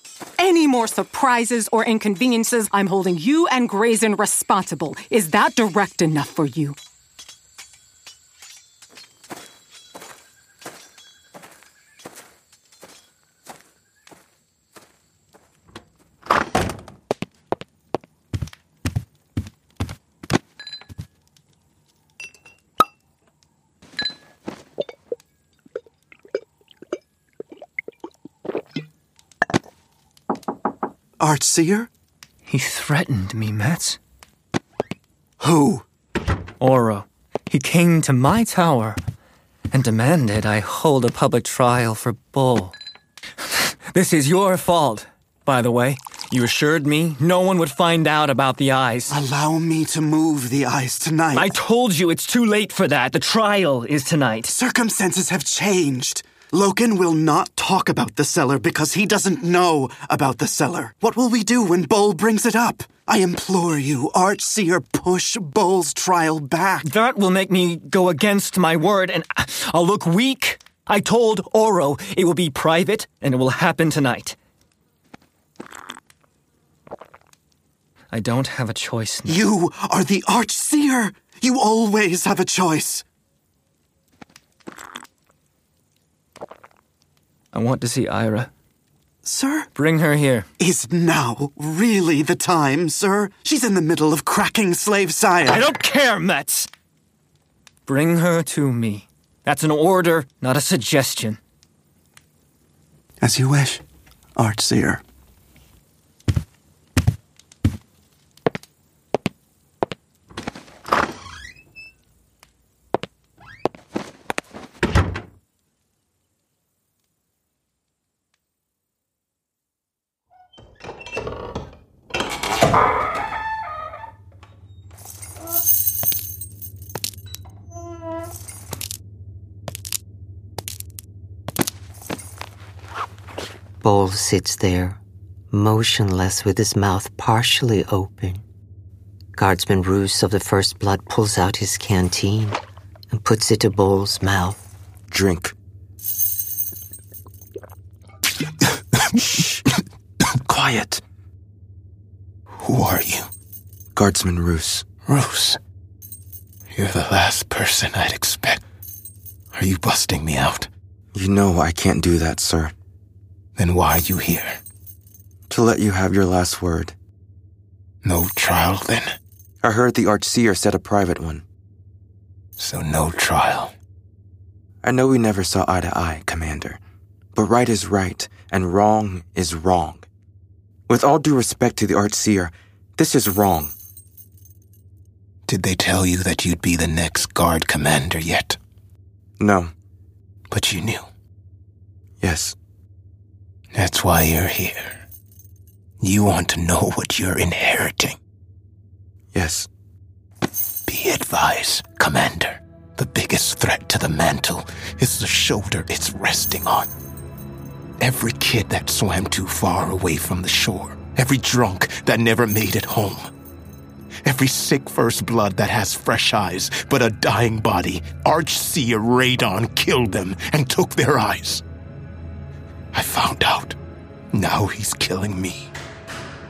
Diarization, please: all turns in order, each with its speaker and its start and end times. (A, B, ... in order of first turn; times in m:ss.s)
0:00.4-0:06.8 A
0:31.2-0:31.9 B
0:32.4-0:34.0 C
0:35.4-0:35.8 B
0:36.6-0:39.0 C
0:39.7-0:42.7 C
0:43.5-0:49.2 C
0:49.1-0:51.5 B
0:51.3-0:54.5 C
0:54.5-1:06.8 B
1:06.8-1:14.4 C
1:18.1-1:19.4 C
1:19.2-1:23.0 B
1:27.5-1:28.5 C
1:29.2-1:29.7 B
1:29.7-1:30.5 C
1:30.6-1:35.7 B
1:35.4-1:36.7 C
1:37.8-1:41.4 C
1:43.2-1:43.8 B
1:44.4-1:45.0 B
2:13.8-2:15.0 D
2:15.5-2:18.4 D
2:19.3-2:24.6 D
2:25.1-2:25.5 E
2:32.6-2:33.3 F
2:33.9-2:34.8 E
2:35.0-2:35.6 F
2:36.7-2:38.6 F
2:39.5-2:40.7 F
2:41.1-2:42.7 E
2:43.6-2:44.6 F
2:45.5-2:47.0 E
2:48.0-2:49.1 F
2:49.6-2:51.4 E
2:52.6-2:53.7 F
2:54.8-2:56.8 E
2:57.3-3:00.1 E
3:00.9-3:03.7 E
3:05.5-3:08.6 F
3:09.4-3:09.7 E
3:10.5-3:11.1 F
3:12.2-3:12.6 E
3:13.7-3:15.0 F
3:16.0-3:18.2 F
3:19.3-3:19.7 E
3:20.9-3:26.9 F
3:28.0-3:33.3 F
3:34.2-3:41.6 F
3:42.9-3:43.8 F
3:44.3-3:45.7 F